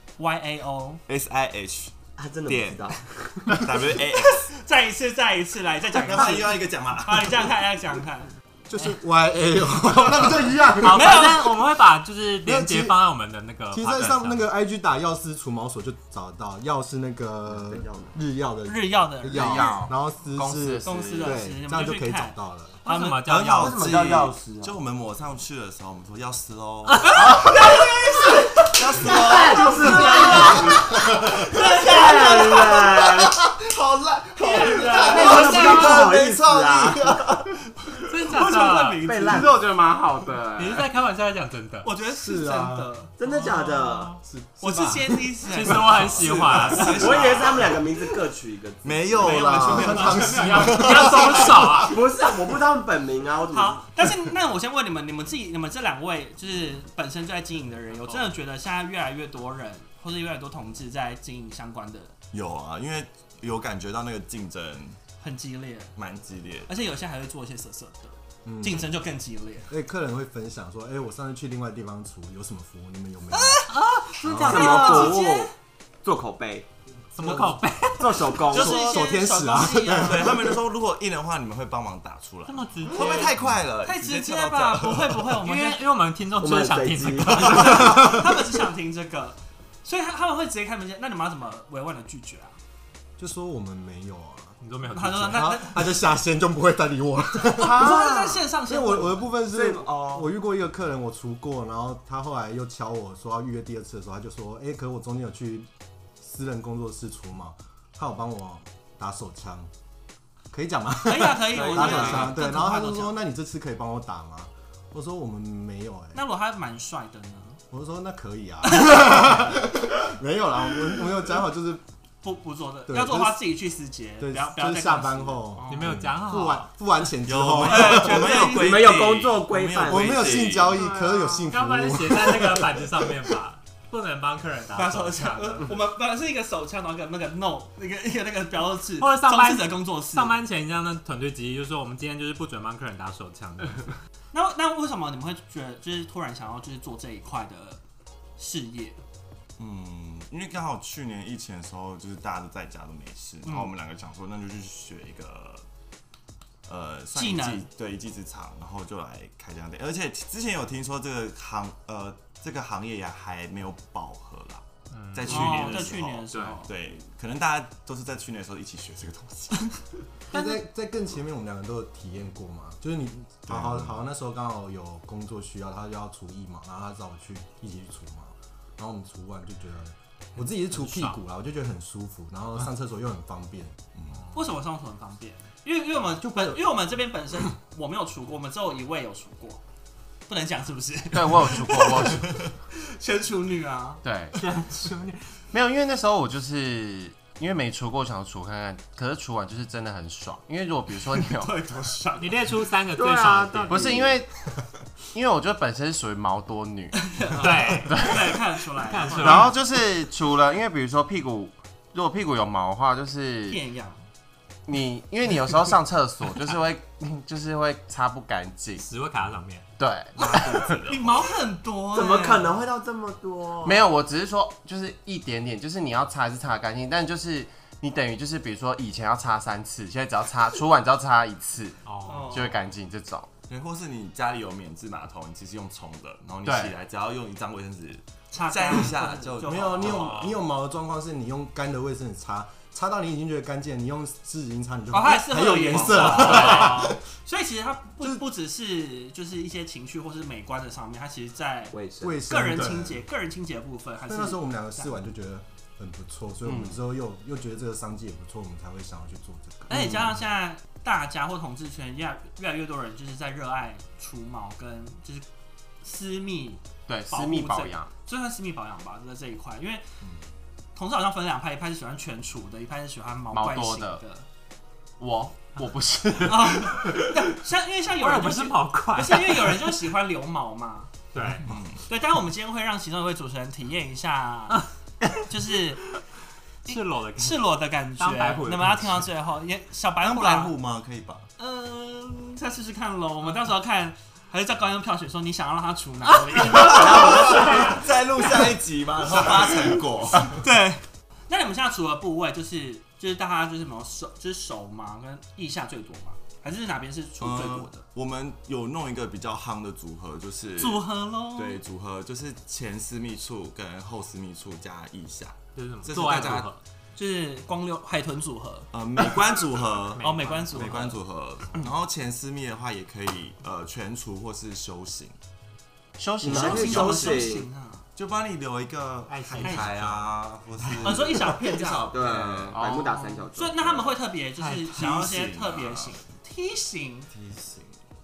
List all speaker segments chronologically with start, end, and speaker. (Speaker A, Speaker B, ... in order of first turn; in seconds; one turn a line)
Speaker A: 0.2-1.0
Speaker B: 1.1-1.9
Speaker C: 2.2-3.7
Speaker B: 2.5-2.9
Speaker B: 3.5-4.5
Speaker A: 4.4-8.9
Speaker B: 5.9-7.5
Speaker D: 8.7-11.4
Speaker E: 10.8-14.4
Speaker A: 10.8-11.5
Speaker D: 12.4-13.0
Speaker D: 13.7-22.8
Speaker C: 17.5-18.1
Speaker A: 18.6-19.8
Speaker F: 19.3-21.4
Speaker A: 20.8-23.3
Speaker E: 22.8-23.9
Speaker B: 23.2-27.4
Speaker C: 23.6-24.7
Speaker E: 26.9-27.4
Speaker A: 27.1-32.7
Speaker B: 28.6-38.0
Speaker C: 28.9-33.4
Speaker E: 34.4-36.0
Speaker C: 34.8-37.2
Speaker E: 38.0-39.0
Speaker A: 38.2-39.5
Speaker C: 39.0-39.6
Speaker F: 39.2-40.9
Speaker E: 40.6-41.9
Speaker A: 41.8-43.1
Speaker D: 42.1-42.9
Speaker C: 43.2-44.2
Speaker E: 43.2-44.2
Speaker D: 44.3-46.5
Speaker A: 44.6-47.8
Speaker E: 45.5-47.4
Speaker C: 46.7-50.0
Speaker B: 48.8-51.6
Speaker A: 49.2-50.3
Speaker D: 49.2-51.9
Speaker E: 50.0-52.0
Speaker A: 50.9-51.5
Speaker C: 51.8-53.8
Speaker A: 53.5-62.1
Speaker B: 62.3-65.0
Speaker A: 65.2-65.9
Speaker B: 66.0-66.7
Speaker A: 66.7-69.7
Speaker D: 68.4-68.9
Speaker D: 69.7-73.7
Speaker A: 73.3-73.7
Speaker E: 73.7-75.2
Speaker D: 74.2-74.8
Speaker C: 74.3-75.5
Speaker A: 74.4-75.5
Speaker C: 76.0-76.7
Speaker E: 77.1-78.4
Speaker D: 77.2-77.6
Speaker C: 78.0-78.8
Speaker A: 78.5-80.3
Speaker D: 78.5-80.6
Speaker B: 78.6-79.1
Speaker B: 79.9-85.4
Speaker E: 82.5-83.3
Speaker D: 83.1-83.5
Speaker A: 83.8-85.8
Speaker E: 85.4-88.2
Speaker C: 86.4-88.1
Speaker A: 87.3-92.5
Speaker D: 93.2-94.6
Speaker E: 94.6-95.5
Speaker A: 94.9-95.8
Speaker D: 95.3-98.0
Speaker F: 97.5-98.5
Speaker A: 97.6-99.3
Speaker D: 98.7-109.7
Speaker C: 99.5-100.3
Speaker D: 110.5-116.2
Speaker A: 111.0-113.2
Speaker C: 111.5-112.3
Speaker A: 116.1-117.6
Speaker D: 117.7-121.8
Speaker A: 118.6-119.5
Speaker A: 122.2-125.9
Speaker D: 122.9-123.4
Speaker D: 124.2-128.4
Speaker E: 125.7-126.7
Speaker B: 127.2-130.8
Speaker A: 127.6-128.9
Speaker C: 128.4-130.5
Speaker D: 129.8-133.3
Speaker F: 130.7-131.5
Speaker E: 131.5-135.7
Speaker A: 134.7-140.4
Speaker E: 139.0-143.9
Speaker A: 144.3-147.8
Speaker A: 148.4-149.0
Speaker B: 149.6-155.6
Speaker A: 153.4-153.7
Speaker B: 156.7-169.8
Speaker A: 157.1-157.7
Speaker E: 164.9-165.8
Speaker A: 165.2-166.7
Speaker F: 165.5-165.8
Speaker F: 166.3-166.7
Speaker D: 170.3-183.8
Speaker E: 170.3-170.6
Speaker B: 173.5-174.0
Speaker E: 180.4-181.2
Speaker B: 184.0-184.2
Speaker A: 184.3-189.6
Speaker A: 190.3-194.0
Speaker F: 191.1-192.3
Speaker F: 194.0-194.4
Speaker E: 194.3-195.4
Speaker F: 195.5-201.5
Speaker A: 201.2-202.3
Speaker E: 202.2-204.2
Speaker F: 202.9-204.3
Speaker F: 205.1-207.0
Speaker A: 207.0-209.5
Speaker E: 207.4-208.3
Speaker F: 207.7-208.4
Speaker E: 208.8-209.5
Speaker F: 209.1-213.6
Speaker A: 213.5-214.0
Speaker F: 214.7-218.8
Speaker E: 218.8-219.7
Speaker F: 219.8-220.8
Speaker B: 220.2-221.3
Speaker A: 220.8-222.5
Speaker C: 221.9-223.8
Speaker F: 223.6-233.3
Speaker E: 231.8-232.5
Speaker A: 232.0-232.5
Speaker B: 233.5-240.2
Speaker F: 236.4-236.7
Speaker A: 238.3-240.0
Speaker D: 239.4-247.0
Speaker E: 239.9-240.4
Speaker A: 244.9-254.9
Speaker E: 246.2-246.9
Speaker C: 251.7-252.2
Speaker D: 252.0-253.0
Speaker D: 254.1-260.2
Speaker F: 256.5-256.7
Speaker A: 259.7-265.2
Speaker A: 265.8-269.8
Speaker F: 266.9-267.9
Speaker A: 270.7-274.2
Speaker F: 273.3-274.0
Speaker F: 275.0-277.0
Speaker A: 276.2-280.9
Speaker E: 278.0-279.8
Speaker E: 281.1-281.5
Speaker B: 281.4-281.8
Speaker A: 281.9-284.6
Speaker A: 285.2-285.9
Speaker E: 286.6-289.0
Speaker A: 286.6-290.5
Speaker B: 290.0-291.3
Speaker A: 291.4-298.3
Speaker E: 296.4-297.0
Speaker C: 296.5-297.9
Speaker B: 296.6-300.4
Speaker A: 299.0-307.8
Speaker B: 307.2-316.5
Speaker A: 310.6-311.6
Speaker E: 315.6-316.6
Speaker A: 316.9-319.1
Speaker B: 318.7-325.1
Speaker E: 320.0-320.9
Speaker A: 320.0-321.0
Speaker F: 326.0-327.3
Speaker C: 326.2-327.4
Speaker A: 326.3-327.8
Speaker B: 327.9-332.8
Speaker E: 329.1-330.1
Speaker A: 329.4-329.7
Speaker A: 330.7-331.9
Speaker C: 331.9-333.6
Speaker F: 332.5-333.1
Speaker A: 333.3-337.1
Speaker E: 334.4-334.7
Speaker B: 334.6-336.0
Speaker B: 337.1-337.8